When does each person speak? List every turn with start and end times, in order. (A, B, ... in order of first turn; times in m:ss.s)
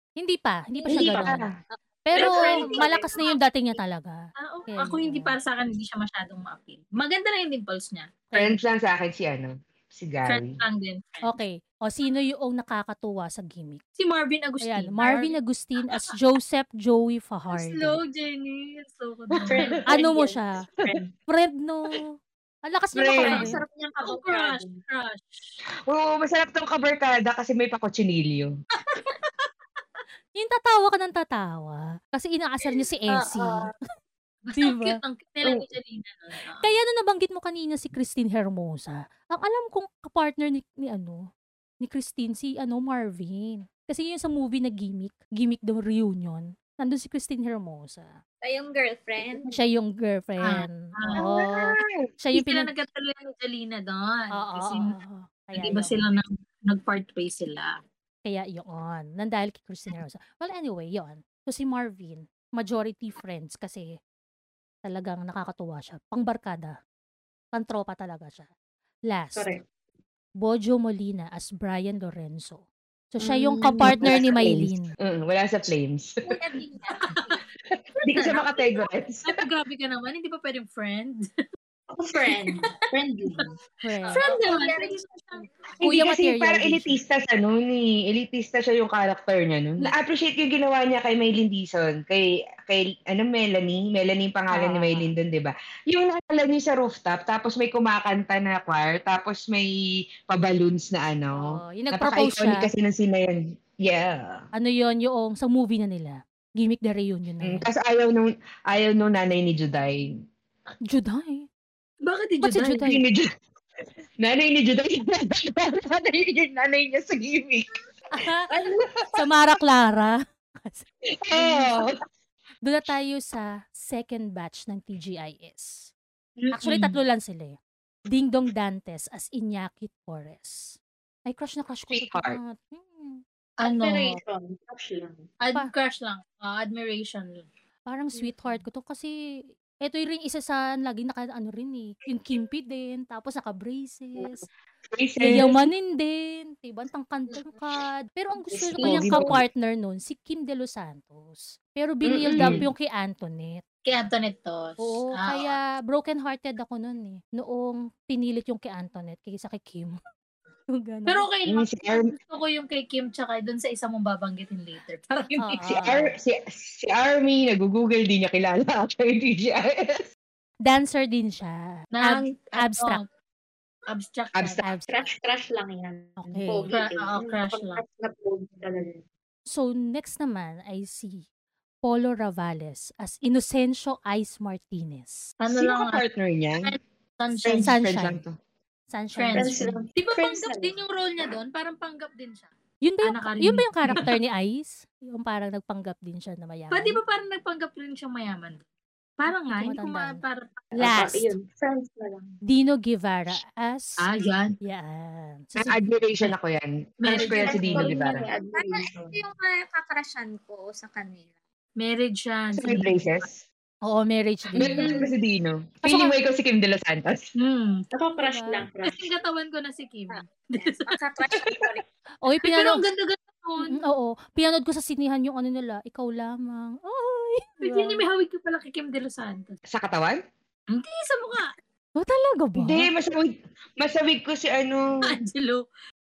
0:00.2-0:01.4 A
0:00.8-0:01.5 B
0:00.9-0:01.5 C
0:02.0-0:05.3 A
0:02.2-0:03.3 B
0:02.2-0:02.6 D
0:02.2-0:03.1 E
0:04.4-0:08.2 D
0:08.3-0:08.6 A
0:08.3-0:10.5 C
0:10.2-0:11.4 D
0:11.2-0:13.8 A
0:14.0-0:15.4 D
0:14.6-0:18.0 A
0:17.5-0:19.8 D
0:19.4-0:19.8 C
0:19.5-0:21.1 E
0:19.9-0:20.6 A
0:21.3-0:22.1 A
0:22.7-0:23.6 A
0:22.9-0:23.5 C
0:23.2-0:24.8 E
0:24.0-0:25.6 D
0:25.9-0:28.5 C
0:28.9-0:29.5 D
0:30.3-0:33.7 A
0:33.1-0:33.7 B
0:34.4-0:36.7 D
0:34.6-0:35.0 A
0:36.6-0:41.3 A
0:41.8-0:48.2 A
0:48.4-0:49.6 B
0:49.5-0:52.7 A
0:50.4-0:51.2 D
0:51.2-0:52.0 C
0:52.3-0:54.9 D
0:54.3-0:56.1 A
0:55.5-0:57.8 D
0:58.2-1:04.0 A
1:04.8-1:06.8 A
1:07.5-1:08.5 A
1:09.1-1:09.6 A
1:09.4-1:09.6 E
1:10.4-1:14.9 A
1:13.2-1:14.4 E
1:13.6-1:16.4 C
1:16.2-1:17.2 B
1:17.0-1:17.4 D
1:18.0-1:19.4 C
1:19.2-1:21.3 D
1:21.9-1:23.6 E
1:22.5-1:22.9 B
1:23.8-1:24.2 A
1:24.0-1:25.5 B
1:24.1-1:25.5 D
1:25.8-1:39.7 C
1:25.8-1:27.0 A
1:34.5-1:35.1 A
1:40.3-1:44.4 C
1:41.3-1:42.7 A
1:44.5-1:47.7 A
1:47.4-1:50.1 C
1:50.9-1:51.5 A
1:52.0-1:52.8 D
1:52.4-1:53.0 A
1:52.8-1:53.3 C
1:54.2-1:57.7 C
1:58.1-1:58.5 A
1:58.5-1:58.8 E
1:58.8-1:59.1 C
1:59.1-2:01.8 A
2:01.2-2:01.9 C
2:02.6-2:05.9 A
2:06.4-2:07.0 D
2:06.5-2:07.6 A
2:08.1-2:13.2 A
2:11.9-2:12.4 C
2:13.6-2:14.2 D
2:13.6-2:15.3 E
2:15.4-2:17.4 D
2:17.9-2:19.1 A
2:19.8-2:24.4 A
2:24.9-2:25.7 C
2:25.2-2:33.6 A
2:28.5-2:29.4 E
2:28.7-2:29.4 C
2:32.0-2:32.7 C
2:32.3-2:32.6 E
2:33.8-2:35.5 D
2:34.8-2:40.0 A
2:40.7-2:41.3 A
2:41.1-2:45.7 D
2:41.5-2:42.1 C
2:45.4-2:46.1 A
2:45.6-2:49.9 C
2:50.6-2:53.0 A
2:51.9-2:53.0 D
2:53.9-2:54.7 D
2:54.3-2:54.6 C
2:54.6-2:55.1 A
2:54.9-2:59.0 E
2:56.2-2:56.7 A
2:56.7-2:57.8 D
2:59.5-3:01.2 A
3:01.8-3:05.3 A
3:05.4-3:06.0 D
3:05.5-3:06.8 C
3:06.6-3:07.8 D
3:07.4-3:08.4 C
3:07.6-3:08.2 A
3:08.9-3:09.8 A
3:09.2-3:12.5 D
3:09.3-3:10.8 E
3:12.8-3:17.0 A
3:13.0-3:14.1 D
3:16.7-3:18.6 D
3:19.2-3:20.7 D
3:19.3-3:20.2 A
3:20.7-3:22.4 E
3:20.8-3:21.3 A
3:22.4-3:24.0 A
3:24.0-3:24.6 D
3:24.6-3:25.8 A
3:25.6-3:28.2 C
3:27.0-3:28.0 D
3:27.1-3:29.2 E
3:28.5-3:31.3 B
3:31.8-3:33.2 D
3:32.6-3:33.4 C
3:33.8-3:35.0 A
3:34.6-3:37.3 C
3:34.6-3:34.9 D
3:35.8-3:36.2 A
3:37.4-3:37.8 D
3:37.9-3:39.1 E
3:38.2-3:38.7 A
3:38.8-3:41.0 D
3:40.2-3:41.8 B
3:41.3-3:41.6 C
3:42.2-3:42.8 A
3:42.4-3:43.8 D
3:43.6-3:48.0 A
3:47.6-3:49.6 D
3:49.7-3:50.2 C
3:50.7-3:51.5 D
3:52.0-3:52.9 A
3:52.6-3:54.9 C
3:55.0-3:55.6 D